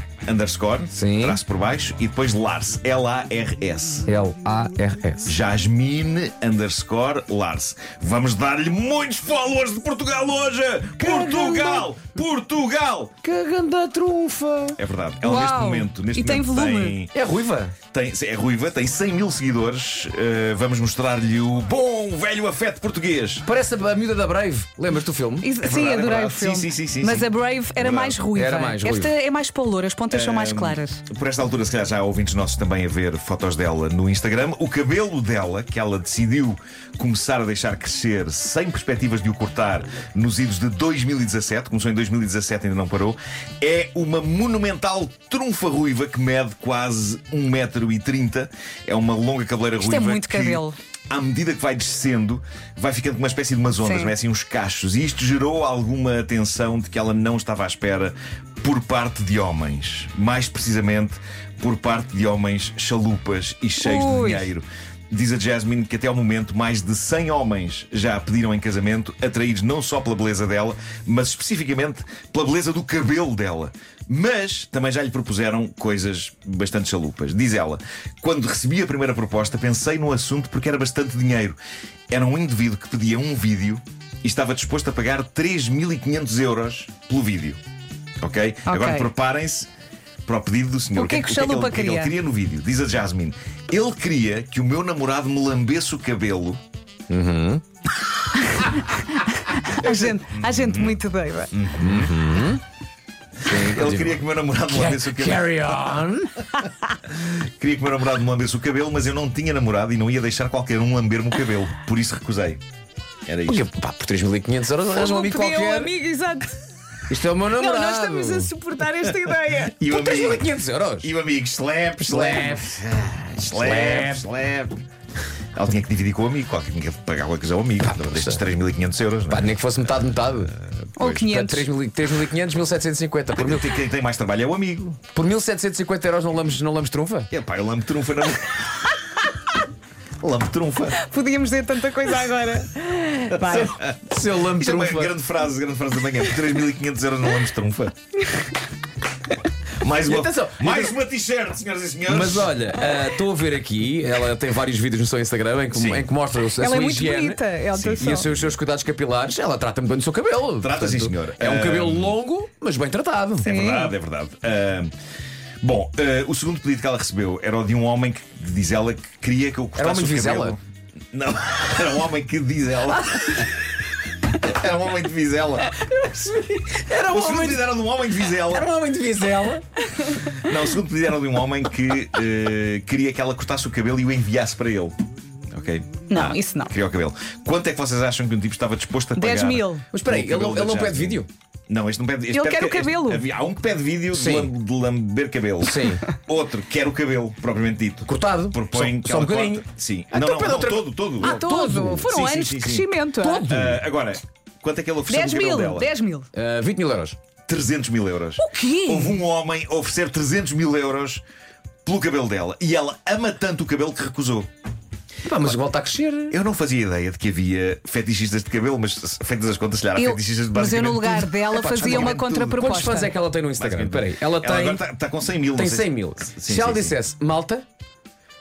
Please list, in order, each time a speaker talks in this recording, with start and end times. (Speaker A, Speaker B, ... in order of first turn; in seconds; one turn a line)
Speaker A: 0.2-4.1
Speaker B: 0.9-1.4
Speaker B: 4.1-5.3
Speaker A: 5.2-13.1
Speaker B: 11.0-11.9
Speaker B: 13.2-14.8
Speaker A: 14.8-17.1
Speaker C: 15.2-17.0
Speaker B: 17.1-17.7
Speaker A: 17.9-23.4
Speaker B: 23.4-25.5
Speaker C: 25.4-31.0
Speaker A: 25.6-28.2
Speaker B: 28.3-29.1
Speaker A: 30.1-81.6
Speaker C: 49.8-50.8
Speaker C: 53.8-54.1
Speaker C: 63.8-64.5
Speaker A: 82.1-87.6
Speaker A: 88.2-89.7
Speaker C: 88.7-89.1
Speaker A: 90.2-96.6
Speaker C: 90.9-92.1
Speaker B: 97.1-97.6
Speaker C: 99.7-101.5
Speaker A: 99.8-101.0
Speaker A: 101.5-102.1
Speaker B: 101.8-102.6
Speaker A: 103.4-105.8
Speaker B: 103.4-106.5
Speaker A: 107.1-112.6
Speaker A: 113.2-113.6
Speaker B: 113.5-115.9
Speaker C: 114.9-116.6
Speaker B: 117.1-118.5
Speaker C: 117.5-119.8
Speaker A: 119.0-120.5
Speaker B: 119.9-121.1
Speaker A: 121.0-124.8
Speaker B: 122.0-122.8
Speaker B: 123.5-124.3
Speaker A: 125.5-129.5
Speaker B: 127.8-128.4
Speaker B: 129.3-133.7
Speaker C: 131.0-131.7
Speaker A: 133.4-135.1
Speaker B: 135.1-137.3
Speaker A: 137.3-138.9
Speaker A: 140.2-141.0
Speaker C: 141.0-143.7
Speaker A: 143.3-144.0
Speaker B: 144.1-145.1
Speaker A: 144.5-147.9
Speaker A: 149.8-152.6
Speaker B: 150.0-150.9
Speaker B: 152.1-163.4
Speaker A: 155.7-156.1
Speaker C: 156.6-158.3
Speaker A: 157.8-158.1
Speaker A: 160.6-162.2
Speaker A: 163.4-164.9
Speaker C: 163.4-163.9
Speaker A: 165.6-170.6
Speaker B: 169.8-170.6
Speaker A: 171.1-173.5
Speaker A: 174.3-175.7
Speaker B: 175.8-179.6
Speaker A: 177.0-178.7
Speaker A: 180.2-184.9
Speaker A: 185.5-202.9
Speaker C: 186.1-186.7
Speaker C: 189.2-189.8
Speaker B: 189.9-191.3
Speaker C: 192.3-193.2
Speaker B: 194.1-194.5
Speaker B: 195.6-196.1
Speaker B: 198.1-202.1
Speaker C: 201.2-203.4
Speaker B: 203.2-203.8
Speaker A: 203.4-205.9
Speaker C: 205.1-206.3
Speaker B: 206.3-207.2
Speaker A: 207.5-211.2
Speaker C: 208.4-209.2
Speaker A: 211.8-214.5
Speaker B: 215.2-216.4
Speaker A: 216.3-222.7
Speaker C: 219.9-223.1
Speaker B: 221.5-224.8
Speaker A: 223.6-226.9
Speaker B: 225.5-227.6